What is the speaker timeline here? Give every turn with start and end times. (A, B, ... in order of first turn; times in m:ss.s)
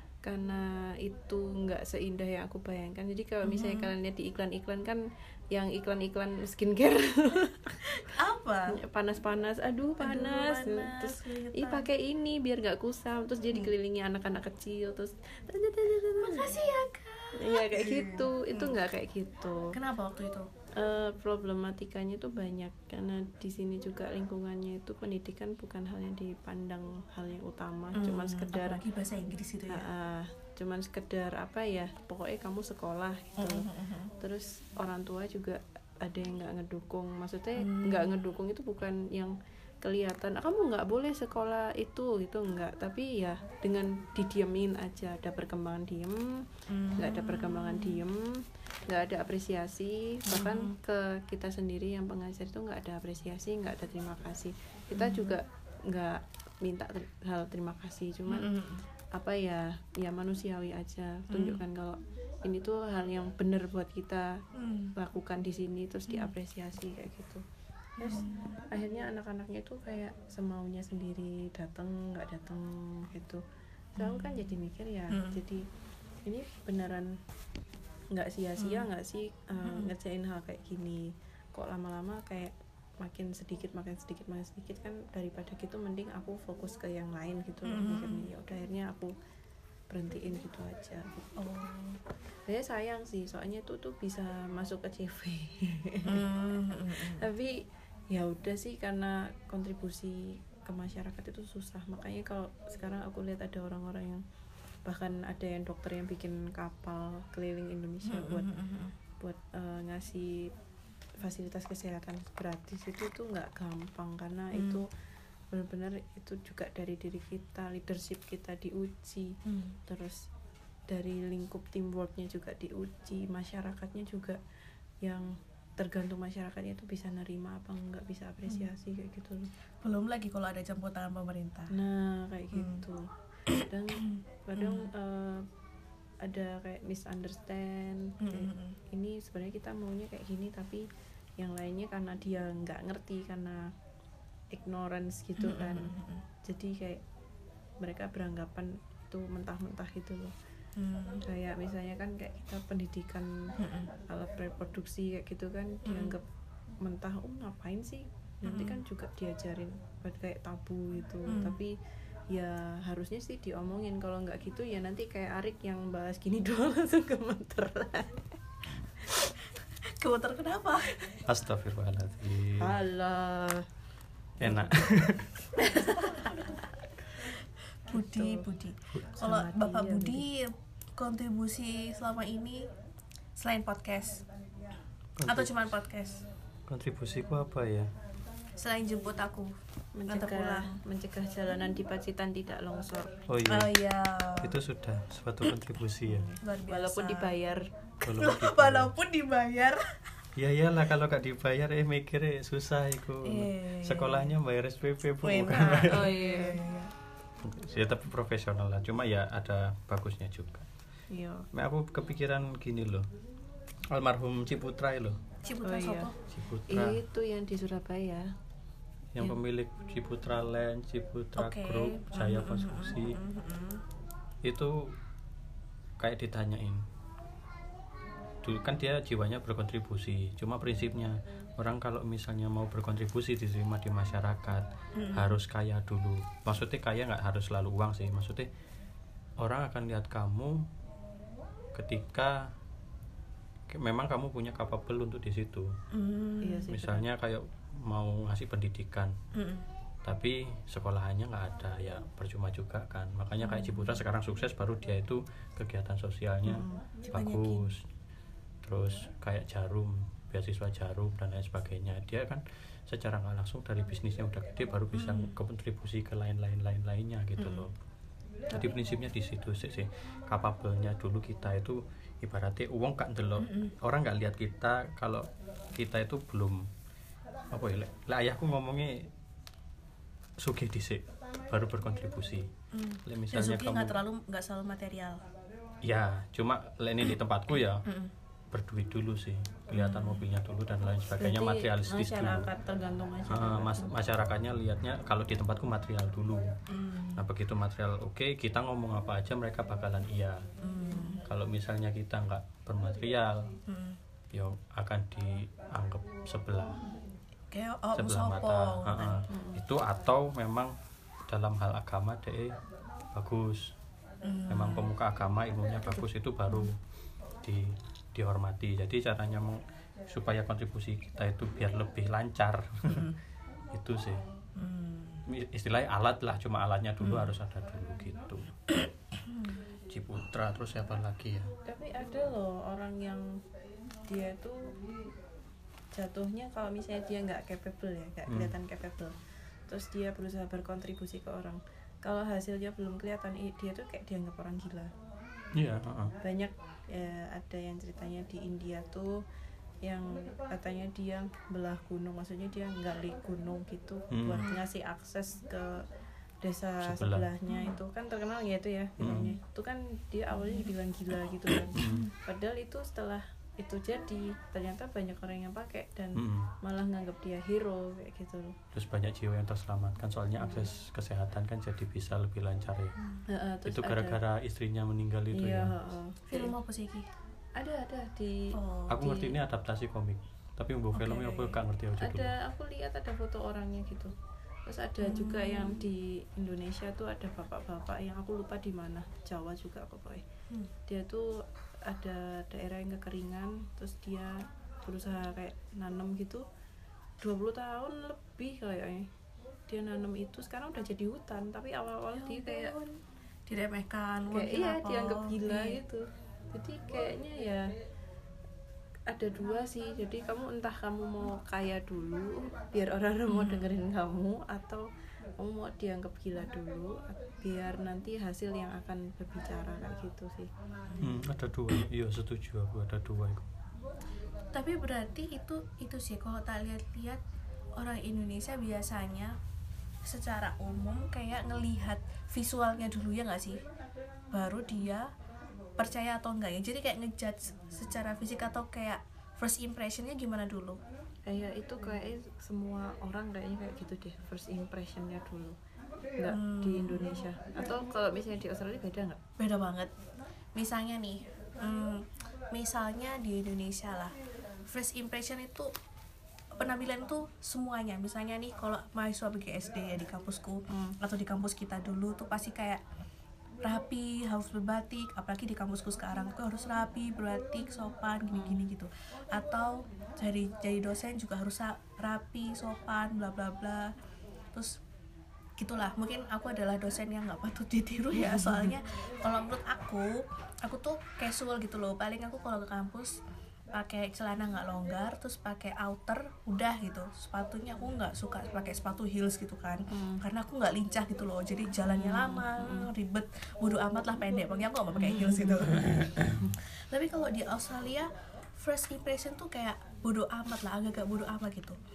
0:00.2-0:07.8 A
0:03.4-0:03.9 B
0:07.8-0:08.8 B
0:08.7-0:16.6 A
0:10.0-0:11.9 B
0:16.2-0:18.8 B
0:17.3-0:19.8 A
0:19.7-0:20.5 B
0:20.7-0:28.8 A
0:27.9-0:29.9 B
0:29.7-0:33.6 A
0:33.4-0:34.1 B
0:34.2-0:58.5 A
0:37.6-0:38.3 B
0:46.7-0:48.0 B
0:50.2-0:50.8 B
0:54.9-0:55.4 B
0:58.3-0:58.8 B
0:59.1-1:04.4 A
1:01.3-1:01.6 B
1:04.6-1:04.9 B
1:05.0-1:07.4 A
1:08.0-1:13.4 A
1:08.0-1:08.6 B
1:14.0-1:15.6 A
1:14.0-1:14.5 B
1:15.1-1:15.4 B
1:16.2-1:17.2 A
1:18.1-1:29.1 A
1:18.6-1:18.9 B
1:19.6-1:19.9 B
1:27.6-1:28.3 B
1:29.9-1:31.3 A
1:31.4-1:32.0 B
1:32.4-1:36.3 A
1:36.0-1:37.3 B
1:36.9-1:44.2 A
1:44.8-1:48.5 A
1:48.0-1:48.9 B
1:49.2-1:50.5 A
1:51.2-1:54.9 A
1:54.5-1:54.8 B
1:55.5-2:00.3 A
1:59.4-1:59.8 B
2:00.9-2:04.4 A
2:05.0-2:09.5 A
2:09.8-2:11.7 B
2:11.7-2:13.1 A
2:12.5-2:12.8 B
2:13.7-2:15.5 A
2:13.9-2:14.9 B
2:16.2-2:20.9 A
2:18.2-2:18.8 B
2:21.4-2:23.7 A
2:24.5-2:27.0 A
2:25.4-2:26.2 B
2:27.8-2:30.3 A
2:30.8-2:31.2 B
2:31.2-2:36.2 A
2:33.6-2:33.9 B
2:35.8-2:36.1 B
2:36.8-2:41.8 A
2:38.4-2:38.8 B
2:41.3-2:41.6 B
2:42.3-2:48.3 A
2:49.8-2:51.2 B
2:51.2-2:52.8 C
2:52.6-2:53.7 A
2:54.4-2:55.3 C
2:54.4-2:54.7 A
2:55.6-2:56.3 A
2:55.6-2:56.6 B
2:57.8-3:02.7 B
2:57.9-2:58.4 A
2:58.9-2:59.2 C
2:59.2-3:00.2 A
3:03.4-3:04.2 B
3:05.2-3:05.7 C
3:05.2-3:06.2 B
3:06.7-3:07.9 C
3:08.6-3:09.5 B
3:09.9-3:13.2 A
3:10.1-3:10.8 B
3:13.3-3:13.8 C
3:13.5-3:14.6 B
3:14.4-3:16.3 C
3:16.0-3:17.4 B
3:16.7-3:17.7 A
3:18.0-3:18.9 C
3:18.0-3:19.9 B
3:20.4-3:26.1 C
3:23.2-3:24.3 B
3:25.2-3:26.9 B
3:25.7-3:26.6 A
3:27.4-3:30.7 C
3:31.1-3:31.5 A
3:31.5-3:33.1 C
3:33.9-3:35.2 C
3:35.4-3:36.1 B
3:35.6-3:36.1 A
3:36.3-3:37.0 C
3:36.7-3:38.3 A
3:39.1-3:43.2 C
3:41.4-3:43.8 B
3:44.4-3:45.0 C
3:46.0-3:46.8 C
3:48.4-3:58.5 C
3:55.0-3:55.4 B
3:59.4-4:00.7 C
4:01.7-4:02.5 C
4:03.7-4:05.8 C
4:05.9-4:06.7 B
4:06.4-4:07.0 A
4:06.7-4:09.1 C
4:09.3-4:09.6 B
4:10.0-4:17.8 C
4:13.4-4:14.0 B
4:16.5-4:17.7 B
4:16.5-4:16.8 A
4:18.6-4:27.7 C
4:24.9-4:25.3 B
4:27.4-4:27.7 B
4:28.5-4:36.7 C
4:33.4-4:33.7 B
4:37.5-4:39.1 C
4:40.4-4:42.5 C
4:42.7-4:45.2 B
4:43.0-4:44.0 C
4:45.8-4:47.8 C
4:47.8-4:48.1 B
4:48.5-4:52.5 C
4:49.7-4:50.3 B
4:51.1-4:53.9 A
4:53.3-4:56.5 C
4:56.7-4:57.2 B
4:57.2-5:00.4 C
5:00.6-5:01.2 B
5:01.2-5:03.5 C
5:03.7-5:04.0 B
5:04.3-5:06.8 C
5:07.5-5:09.2 B
5:07.9-5:10.7 C
5:09.3-5:09.6 A
5:11.3-5:12.6 C
5:13.1-5:13.7 C
5:14.2-5:14.9 B
5:14.5-5:16.8 C
5:17.4-5:23.1 C
5:22.9-5:23.1 B
5:23.7-5:24.2 C
5:24.6-5:25.2 B
5:25.2-5:28.5 C
5:27.0-5:27.3 B
5:29.2-5:29.6 B
5:29.9-5:31.5 C
5:31.6-5:33.4 A
5:34.1-5:34.8 A
5:35.9-5:39.2 A
5:38.3-5:38.5 C
5:39.7-5:44.9 A
5:45.5-5:46.2 C
5:46.2-5:49.2 A
5:49.8-5:55.8 A
5:54.1-5:54.5 C
5:56.4-6:08.6 A
5:56.8-5:57.3 C
5:57.5-5:57.8 B
5:59.0-5:59.3 C
6:00.4-6:00.7 B
6:01.7-6:02.1 C
6:01.8-6:02.1 B
6:06.1-6:06.5 C
6:08.7-6:12.9 C
6:13.3-6:14.2 A
6:13.6-6:15.7 C
6:15.3-6:16.5 A
6:16.3-6:17.1 B
6:17.6-6:19.3 A
6:18.5-6:19.1 B
6:18.9-6:22.3 C
6:20.9-6:21.6 B
6:22.0-6:24.1 A
6:24.6-6:30.2 A
6:25.0-6:25.9 B
6:30.9-6:36.4 A
6:37.2-6:39.1 A
6:39.7-6:42.8 A
6:42.2-6:45.8 B
6:44.3-6:47.7 A
6:49.1-7:00.5 A
6:53.3-6:53.7 B
7:00.9-7:01.2 B
7:01.0-7:03.5 C
7:04.5-7:07.2 B
7:07.8-7:09.4 B
7:10.0-7:13.6 B
7:14.3-7:15.1 B
7:15.8-7:20.8 B
7:21.3-7:25.6 A
7:26.2-7:29.2 A
7:26.3-7:27.2 B
7:29.4-7:29.9 B
7:30.5-7:34.1 B
7:34.6-7:35.7 B
7:36.5-7:42.8 B
7:40.7-7:41.0 A
7:43.6-7:53.9 B
7:48.3-7:48.6 A
7:54.5-7:54.8 B
7:55.6-8:03.2 B
7:58.2-7:58.7 A
8:03.7-8:21.8 B
8:09.9-8:10.2 A
8:11.9-8:12.9 A
8:14.9-8:15.7 A